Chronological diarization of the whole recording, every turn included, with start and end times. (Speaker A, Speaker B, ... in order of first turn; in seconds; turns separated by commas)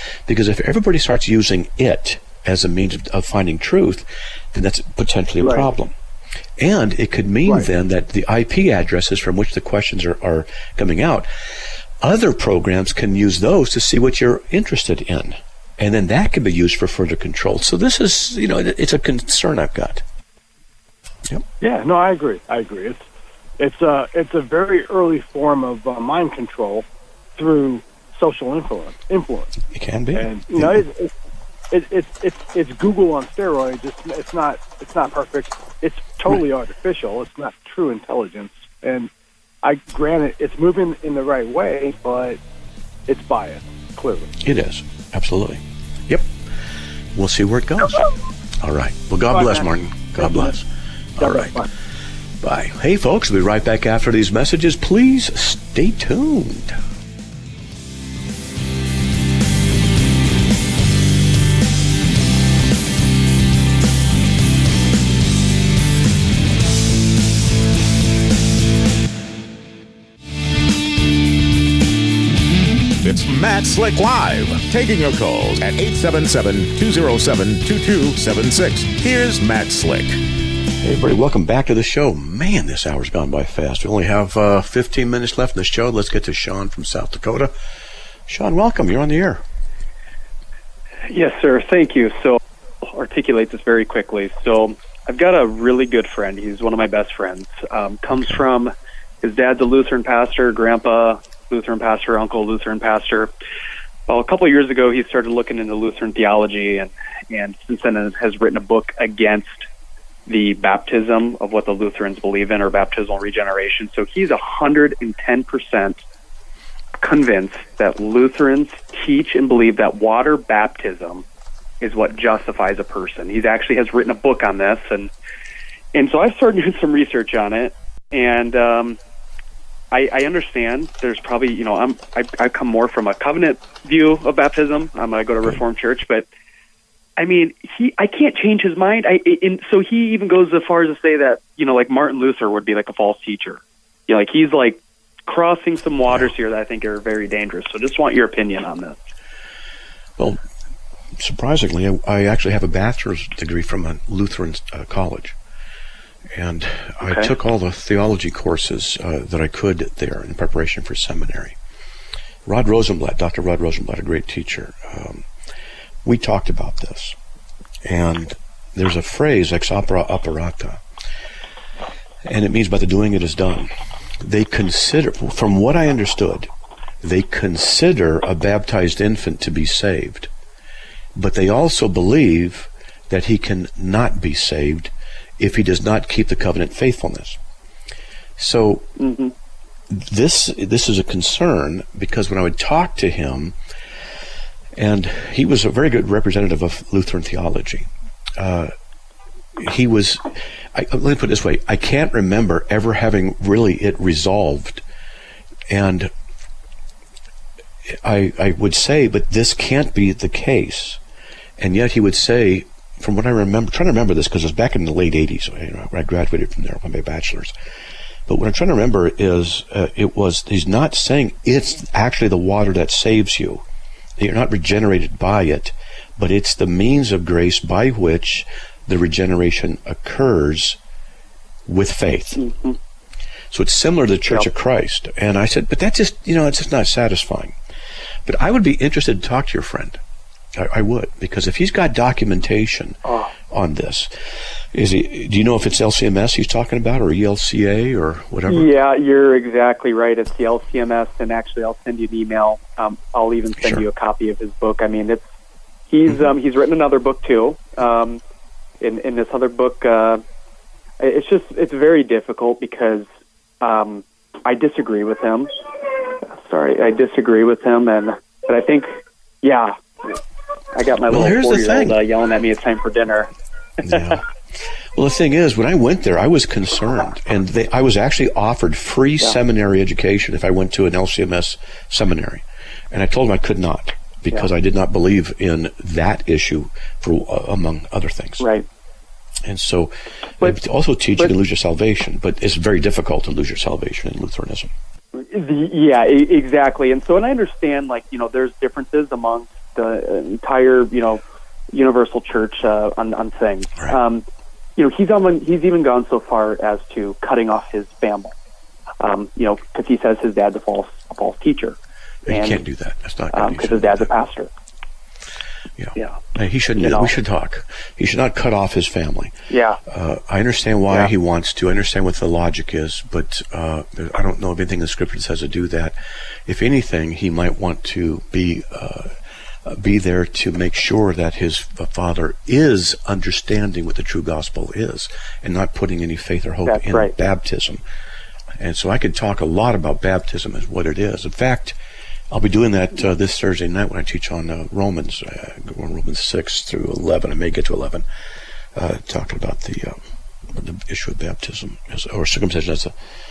Speaker A: 0.3-5.9, Speaker B: 5.4-5.7, Speaker A: 6.6-11.3, Speaker A: 12.0-20.0, Speaker B: 21.6-23.0, Speaker B: 23.6-29.6, Speaker A: 29.7-30.8, Speaker B: 30.1-31.1, Speaker B: 31.7-39.1, Speaker B: 39.6-42.4, Speaker B: 43.1-44.3, Speaker A: 44.4-46.3, Speaker A: 47.1-48.1, Speaker A: 48.6-50.7, Speaker B: 49.3-50.5, Speaker A: 51.2-51.6, Speaker B: 51.2-51.7, Speaker A: 52.4-56.8, Speaker C: 73.0-80.2, Speaker A: 80.8-87.5, Speaker A: 88.3-89.4, Speaker D: 91.1-103.3, Speaker A: 98.1-98.4, Speaker D: 104.1-109.7, Speaker D: 110.3-116.0, Speaker D: 117.0-121.2, Speaker D: 121.8-125.1, Speaker D: 125.9-129.0, Speaker D: 129.9-136.2, Speaker D: 137.2-149.0, Speaker A: 146.1-146.3, Speaker A: 151.2-155.4, Speaker A: 156.3-161.6, Speaker D: 157.1-157.3, Speaker A: 162.5-165.3, Speaker A: 166.0-167.2, Speaker A: 167.8-170.8, Speaker A: 172.2-176.5, Speaker A: 177.0-180.3, Speaker A: 181.2-187.4, Speaker A: 188.4-188.9, Speaker D: 189.0-189.3, Speaker A: 189.9-193.6, Speaker A: 194.8-198.7, Speaker A: 199.6-204.8, Speaker A: 205.7-206.1, Speaker A: 207.9-211.0, Speaker A: 211.6-217.6, Speaker A: 218.3-223.6, Speaker A: 224.2-230.8, Speaker A: 231.7-232.5, Speaker D: 232.4-232.8, Speaker A: 233.5-237.6, Speaker A: 238.3-240.0, Speaker A: 240.6-243.0, Speaker D: 243.1-243.3, Speaker A: 243.5-244.1, Speaker A: 244.7-248.7, Speaker D: 248.5-255.3, Speaker A: 253.6-253.9, Speaker D: 255.9-258.2, Speaker D: 258.8-260.2, Speaker D: 261.0-263.1, Speaker D: 263.6-265.5, Speaker D: 266.3-268.9, Speaker D: 269.4-270.2, Speaker D: 270.8-273.3, Speaker A: 271.1-272.0, Speaker A: 273.9-274.2, Speaker D: 273.9-274.2, Speaker A: 274.9-288.5, Speaker D: 288.4-288.7, Speaker A: 289.4-294.7, Speaker D: 295.2-301.2, Speaker D: 301.7-304.2, Speaker D: 304.8-308.3, Speaker D: 309.0-311.8, Speaker A: 312.3-314.1, Speaker D: 312.3-312.6, Speaker D: 313.3-314.5, Speaker A: 315.8-319.4, Speaker D: 316.8-317.1, Speaker D: 319.5-319.8, Speaker A: 319.9-329.1, Speaker A: 329.7-337.8, Speaker D: 336.7-337.1, Speaker A: 338.6-341.8, Speaker A: 342.3-348.0, Speaker A: 348.8-352.9